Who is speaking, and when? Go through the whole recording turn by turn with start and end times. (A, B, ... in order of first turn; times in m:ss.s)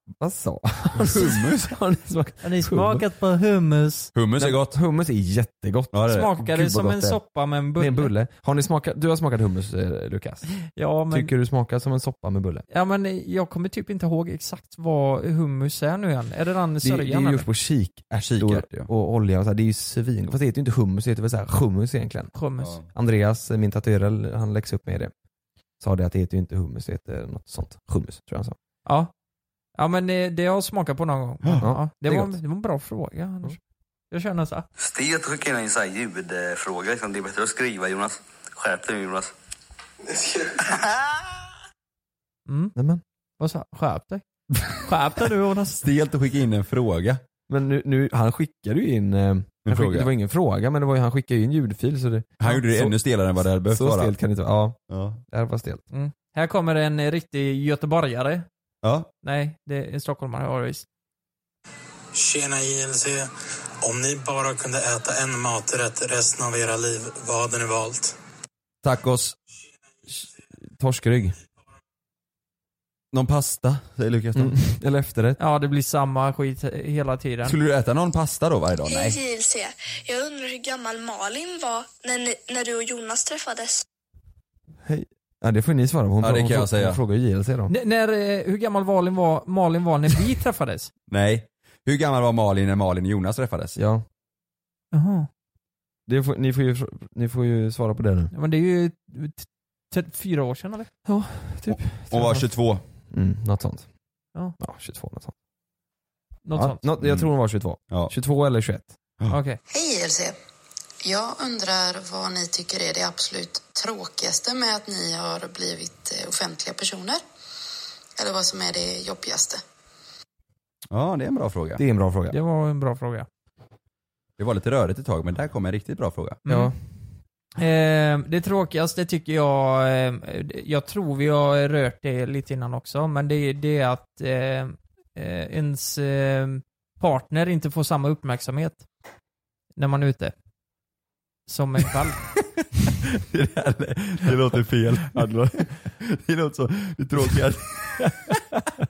0:00.2-0:03.0 A
0:01.0-0:01.7 B
0:02.4-0:04.1 C
0:04.1-0:04.7 B
0:04.4-0:07.2 A
0:05.9-0:06.3 B
0:06.1-0:08.1 C
0:07.8-0:10.4 A
0:10.7-0:11.3 C
0:11.1-0:12.6 A
0:12.7-0:17.4 C
0:16.8-0:22.3 A
0:18.2-0:18.9 B
0:22.3-0:22.7 C
0:22.6-0:22.8 B
0:22.9-0:25.1 A
0:25.8-0:28.6 A
0:29.8-0:33.6 C
0:31.6-0:32.4 A
0:34.1-0:34.6 C
0:34.8-0:39.3 D
0:42.5-0:42.7 C
0:42.8-0:43.0 A
0:43.4-0:44.2 C
0:44.8-0:45.8 C
0:45.8-0:47.2 B
0:47.5-0:52.9 A
0:49.6-0:50.1 B
0:52.4-0:54.1 B
0:53.7-0:54.8 A
0:54.9-0:55.2 B
0:55.3-0:55.8 A
0:55.9-0:58.4 C
0:58.8-0:59.1 B
0:59.2-1:00.8 C
1:02.1-1:03.3 E
1:03.8-1:08.1 E
1:08.8-1:09.3 B
1:10.8-1:11.4 A
1:13.1-1:14.6 B
1:14.3-1:15.4 A
1:15.4-1:17.6 C
1:17.4-1:19.2 B
1:18.9-1:23.8 F
1:24.8-1:27.7 A
1:26.2-1:27.0 B
1:27.7-1:30.9 C
1:31.1-1:33.8 B
1:33.8-1:34.0 A
1:34.9-1:35.3 C
1:36.1-1:38.3 A
1:38.3-1:40.9 C
1:41.0-1:42.5 A
1:41.7-1:42.8 B
1:43.1-1:43.8 A
1:44.6-1:45.3 A
1:46.4-1:46.8 C
1:46.5-1:48.9 A
1:47.0-1:47.3 B
1:49.3-1:49.6 C
1:49.7-1:50.4 G
1:51.0-1:57.2 G
1:58.2-1:59.6 G
2:00.9-2:01.8 B
2:01.8-2:02.4 A
2:02.3-2:03.3 C
2:04.4-2:06.4 B
2:06.4-2:06.7 C
2:06.5-2:06.8 A
2:07.6-2:18.8 C
2:19.8-2:20.3 C
2:21.5-2:22.2 C
2:23.3-2:28.1 B
2:25.0-2:25.6 A